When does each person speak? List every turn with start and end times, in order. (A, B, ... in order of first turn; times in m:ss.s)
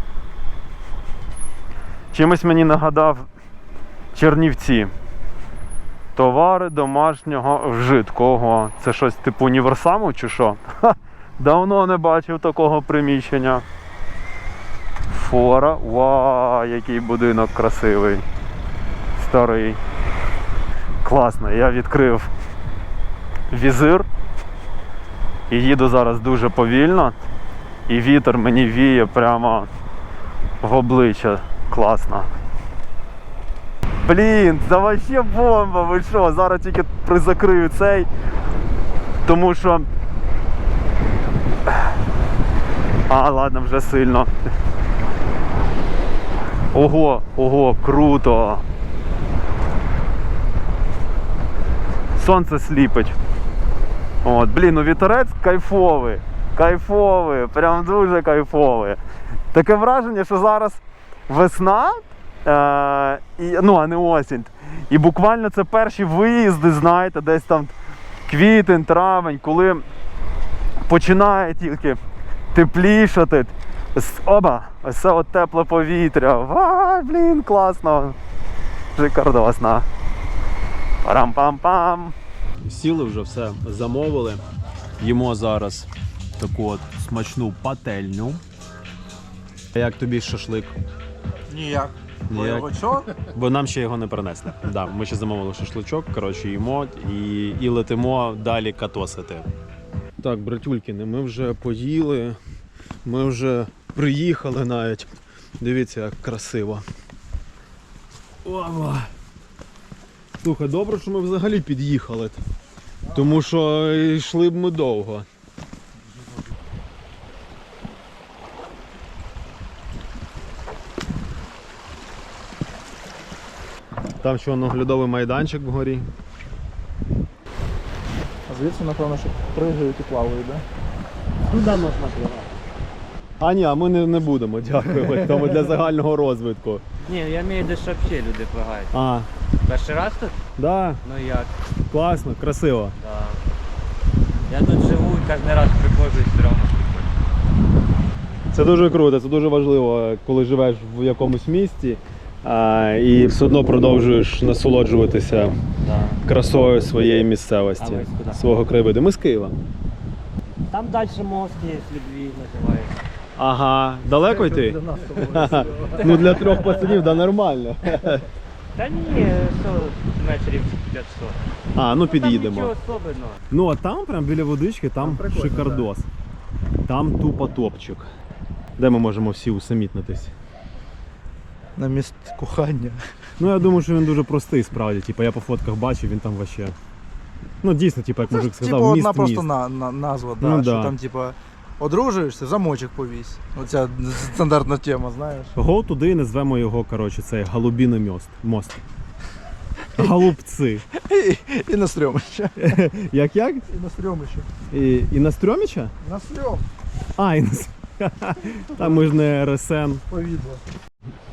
0:02.1-0:03.3 A
0:04.1-0:04.9 A
0:06.2-0:13.6 A
0:15.1-0:18.2 A
0:19.2-0:19.8 A
0:21.0-0:22.3 A
0:23.5-0:24.1 A
0:25.5-0:27.2 A
0:27.9-0:29.7 A
0:30.6-0:32.3 A
0:34.0-0:38.1 A
0:39.2-0:39.9 A
0:43.1-0:44.3 A
0:46.7-0:48.6 A
0:52.2-0:53.2 A
0:54.2-0:59.0 A
0:59.5-1:07.7 A
1:08.3-1:09.8 A
1:10.9-1:12.0 A
1:12.5-1:18.2 A
1:19.0-1:19.9 A
1:21.0-1:22.1 A
1:22.6-1:24.4 B
1:25.0-1:28.4 B
1:29.7-1:30.7 B
1:31.5-1:33.1 C
1:32.3-1:39.5 B
1:40.2-1:42.4 B
1:43.0-1:46.8 B
1:48.4-1:49.1 B
1:50.4-1:52.4 B
1:53.1-1:55.3 B
2:04.2-2:06.1 B
2:08.5-2:10.6 C
2:11.5-2:12.5 D
2:13.4-2:16.8 B
2:17.0-2:18.9 D
2:18.9-2:19.3 B
2:19.6-2:20.4 D
2:20.6-2:21.0 B
2:21.0-2:21.5 D
2:21.9-2:23.0 B
2:23.0-2:23.4 D
2:24.5-2:27.1 D
2:28.5-2:35.5 B
2:35.9-2:36.2 D
2:36.2-2:39.6 B
2:37.8-2:38.4 D
2:40.7-2:42.9 D
2:43.4-2:48.3 B
2:44.5-2:46.2 C
2:46.1-2:46.7 D
2:48.8-2:51.4 D
2:51.7-2:52.7 B
2:52.1-2:53.4 D
2:53.5-2:56.1 B
2:55.2-2:55.7 C
2:56.9-2:58.1 B
2:58.8-3:00.3 B
3:01.8-3:03.0 C
3:03.4-3:06.8 B
3:07.6-3:09.5 B
3:08.3-3:15.5 C
3:10.4-3:11.0 B
3:15.6-3:18.8 B
3:20.0-3:20.9 B
3:21.0-3:22.8 C
3:22.6-3:23.7 B
3:23.7-3:24.5 C
3:24.7-3:25.9 B
3:26.0-3:26.7 C
3:27.2-3:30.0 B
3:30.1-3:30.6 C